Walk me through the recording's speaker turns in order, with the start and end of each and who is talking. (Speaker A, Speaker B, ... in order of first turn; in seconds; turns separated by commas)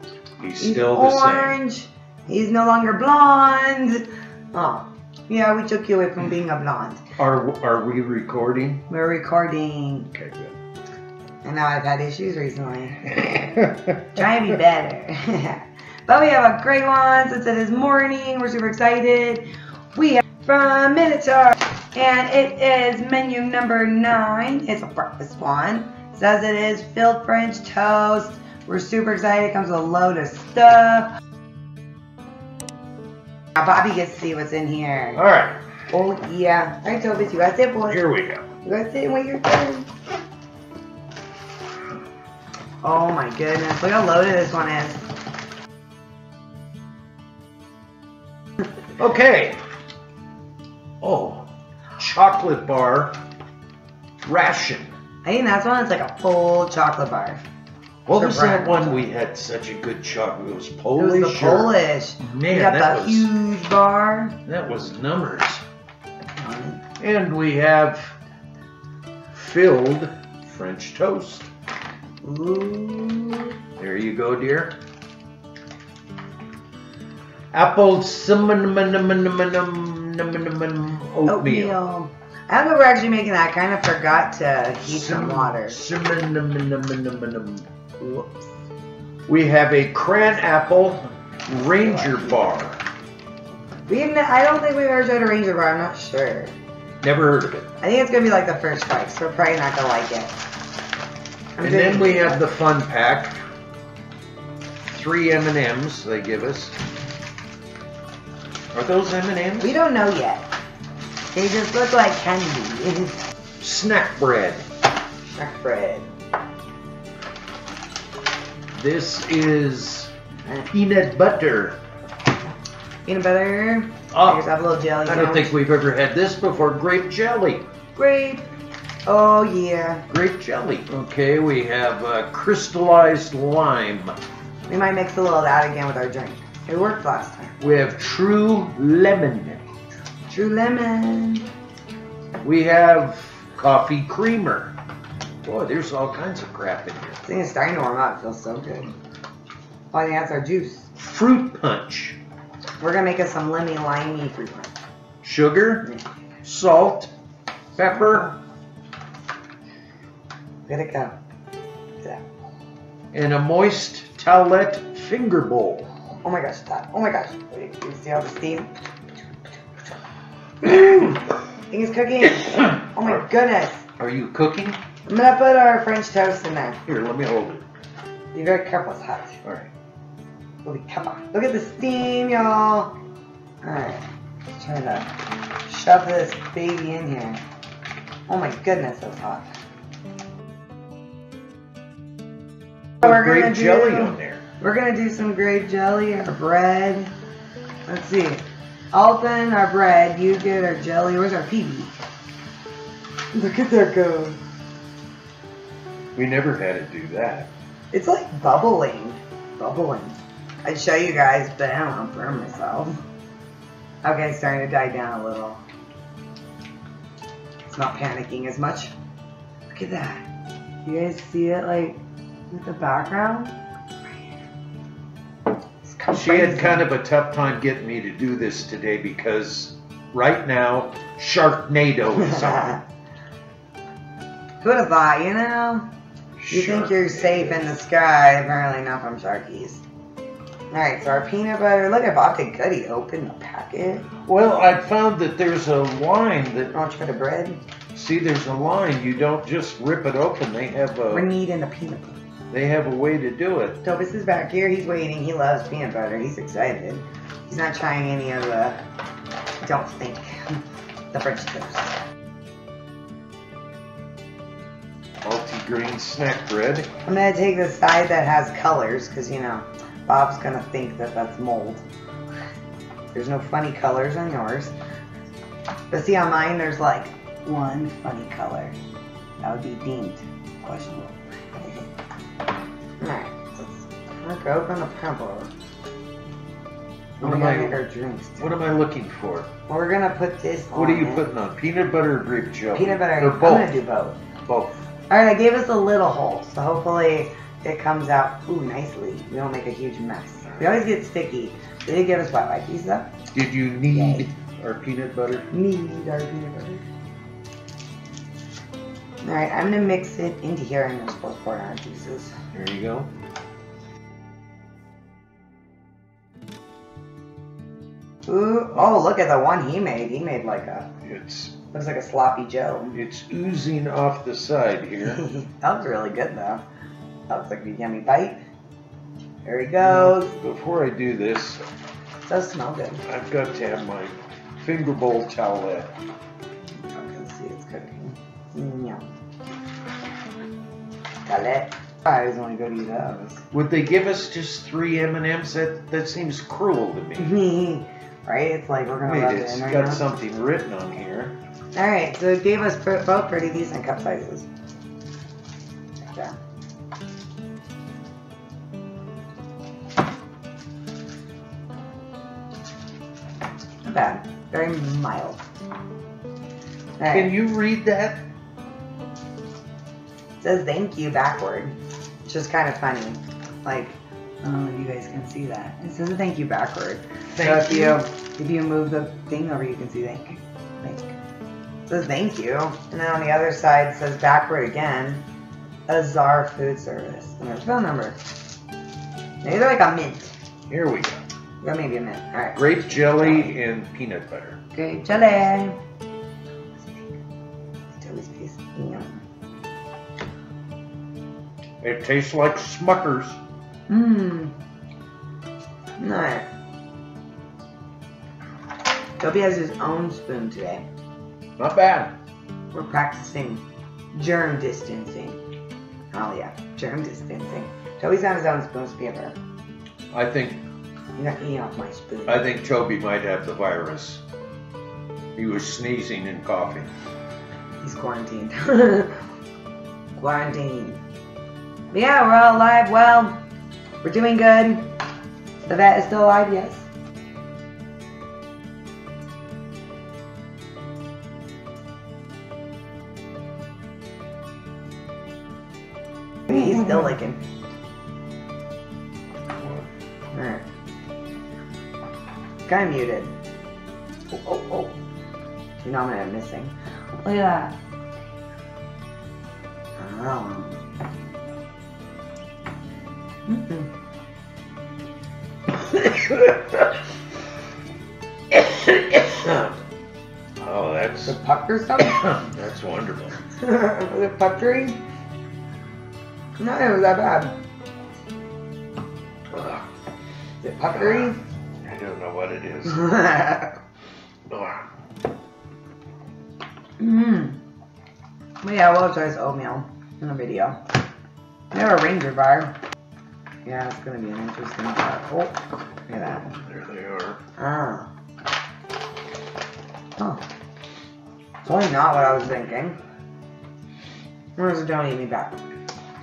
Speaker A: 0.4-1.6, Speaker B: 0.6-7.0, Speaker A: 7.2-8.8, Speaker B: 8.9-10.1, Speaker A: 10.1-10.6, Speaker B: 11.4-31.1, Speaker A: 13.3-13.7, Speaker B: 33.5-35.2, Speaker A: 35.1-35.6, Speaker B: 35.9-38.0, Speaker A: 37.9-38.4, Speaker B: 38.6-39.9, Speaker B: 42.8-45.1, Speaker A: 49.0-49.6, Speaker A: 51.0-53.2, Speaker A: 54.2-54.9, Speaker B: 55.2-57.4, Speaker A: 58.1-63.3, Speaker B: 58.1-59.1, Speaker B: 61.0-64.4, Speaker A: 64.5-65.6, Speaker B: 66.4-66.8, Speaker A: 67.0-68.1, Speaker A: 69.3-71.5, Speaker B: 72.2-73.5, Speaker A: 73.8-74.8, Speaker A: 77.5-81.8, Speaker B: 81.3-85.8, Speaker A: 84.8-88.2, Speaker A: 89.3-92.8, Speaker B: 91.6-92.4, Speaker B: 93.9-96.5, Speaker A: 97.0-97.7, Speaker B: 97.8-100.3, Speaker B: 101.6-102.5, Speaker A: 101.6-103.4, Speaker A: 104.8-106.8, Speaker A: 108.7-109.7, Speaker B: 109.6-110.5, Speaker B: 111.3-113.2, Speaker A: 113.6-114.7, Speaker B: 115.3-116.1, Speaker A: 118.7-120.1, Speaker A: 120.7-121.8, Speaker B: 123.0-125.5, Speaker A: 124.1-124.4, Speaker A: 125.1-127.7, Speaker B: 128.0-128.5, Speaker B: 129.1-130.1, Speaker A: 130.1-134.2, Speaker B: 134.7-137.6, Speaker A: 137.6-139.6, Speaker B: 140.3-141.4, Speaker A: 142.4-144.8, Speaker A: 145.4-147.2, Speaker B: 147.2-148.9, Speaker B: 149.9-150.9, Speaker A: 151.0-152.2, Speaker B: 152.8-154.7, Speaker A: 155.2-155.9, Speaker A: 156.4-157.1, Speaker A: 157.8-158.3, Speaker B: 157.9-158.3, Speaker B: 160.7-161.2, Speaker A: 163.1-165.9, Speaker B: 166.2-168.7, Speaker B: 170.6-173.8, Speaker A: 174.0-174.8, Speaker B: 175.1-176.8, Speaker A: 176.9-177.6, Speaker B: 178.3-179.4, Speaker A: 179.4-179.7, Speaker B: 180.6-182.9, Speaker B: 183.6-185.1, Speaker B: 185.7-187.4, Speaker B: 188.3-189.5, Speaker A: 193.0-194.4, Speaker B: 193.0-197.1, Speaker B: 197.9-202.0, Speaker B: 203.3-204.4, Speaker A: 206.2-207.5, Speaker B: 207.9-213.0, Speaker B: 214.0-215.6, Speaker B: 217.7-218.9, Speaker B: 219.7-220.3, Speaker B: 220.8-223.6, Speaker B: 225.8-226.9, Speaker A: 226.1-232.8, Speaker B: 232.3-232.8, Speaker B: 234.6-235.9, Speaker A: 236.4-237.7, Speaker B: 236.5-239.8, Speaker B: 240.7-244.1, Speaker A: 244.2-246.7, Speaker B: 246.7-247.6, Speaker A: 247.9-251.3, Speaker B: 251.1-252.2, Speaker A: 252.5-253.8, Speaker B: 253.8-258.8, Speaker B: 259.6-262.0, Speaker A: 265.2-266.9, Speaker B: 267.1-271.9, Speaker B: 273.1-274.8, Speaker B: 275.9-278.8, Speaker B: 279.4-281.9, Speaker B: 283.0-285.5, Speaker A: 287.2-287.8, Speaker B: 287.2-288.5, Speaker A: 288.4-289.5, Speaker B: 289.7-291.3, Speaker A: 290.7-293.8, Speaker B: 292.7-294.2, Speaker A: 294.5-294.8, Speaker B: 295.1-303.1, Speaker A: 303.3-305.5, Speaker B: 303.9-304.3, Speaker B: 305.5-306.8, Speaker B: 309.2-312.4, Speaker A: 312.5-313.1, Speaker B: 318.3-320.9, Speaker A: 321.1-321.6, Speaker B: 321.7-323.0, Speaker A: 322.9-325.2, Speaker B: 325.0-326.6, Speaker B: 327.3-328.4, Speaker B: 329.4-330.4, Speaker A: 329.8-331.6, Speaker B: 332.2-333.0, Speaker A: 333.1-335.9, Speaker B: 336.8-339.1, Speaker B: 341.3-343.4, Speaker A: 343.5-347.4, Speaker B: 347.2-350.1, Speaker A: 349.0-351.4, Speaker B: 351.8-354.5, Speaker B: 356.0-356.4, Speaker B: 363.8-365.4, Speaker B: 367.0-367.3, Speaker A: 367.1-368.3, Speaker B: 370.4-371.8, Speaker B: 372.3-381.2, Speaker A: 377.3-378.0, Speaker B: 381.9-385.2, Speaker B: 385.9-388.2, Speaker B: 389.4-390.3, Speaker A: 390.7-391.2, Speaker B: 391.6-393.5, Speaker A: 392.6-394.6, Speaker B: 394.7-395.8, Speaker B: 397.9-399.2, Speaker A: 401.8-403.4, Speaker B: 403.9-404.5, Speaker B: 406.0-406.5, Speaker B: 409.2-410.9, Speaker A: 411.6-412.1, Speaker B: 412.7-415.4, Speaker B: 416.1-419.4, Speaker A: 420.1-420.6, Speaker B: 421.2-422.5, Speaker A: 422.3-424.2, Speaker A: 425.4-426.9, Speaker B: 427.8-429.2, Speaker B: 430.2-431.0, Speaker B: 431.9-433.4, Speaker B: 434.0-434.9, Speaker B: 435.6-436.9, Speaker B: 446.5-447.4, Speaker A: 449.6-449.9, Speaker B: 450.3-450.6, Speaker B: 452.7-453.3, Speaker B: 454.3-455.0, Speaker B: 455.8-457.7, Speaker B: 460.0-460.8, Speaker B: 463.5-463.9, Speaker A: 465.9-466.9, Speaker A: 468.5-469.7, Speaker A: 470.6-471.4, Speaker B: 471.2-472.3, Speaker A: 472.0-473.4, Speaker B: 473.6-475.0, Speaker B: 476.6-477.6, Speaker A: 479.5-479.9, Speaker B: 480.6-481.4, Speaker A: 481.0-481.3, Speaker A: 481.9-483.2, Speaker B: 482.9-483.8, Speaker A: 484.5-484.8, Speaker B: 487.0-487.6, Speaker B: 488.6-490.8, Speaker B: 491.7-492.7, Speaker B: 493.6-496.5, Speaker A: 496.4-497.4, Speaker B: 497.6-498.1, Speaker B: 500.2-500.4, Speaker B: 501.6-503.0, Speaker B: 504.6-505.6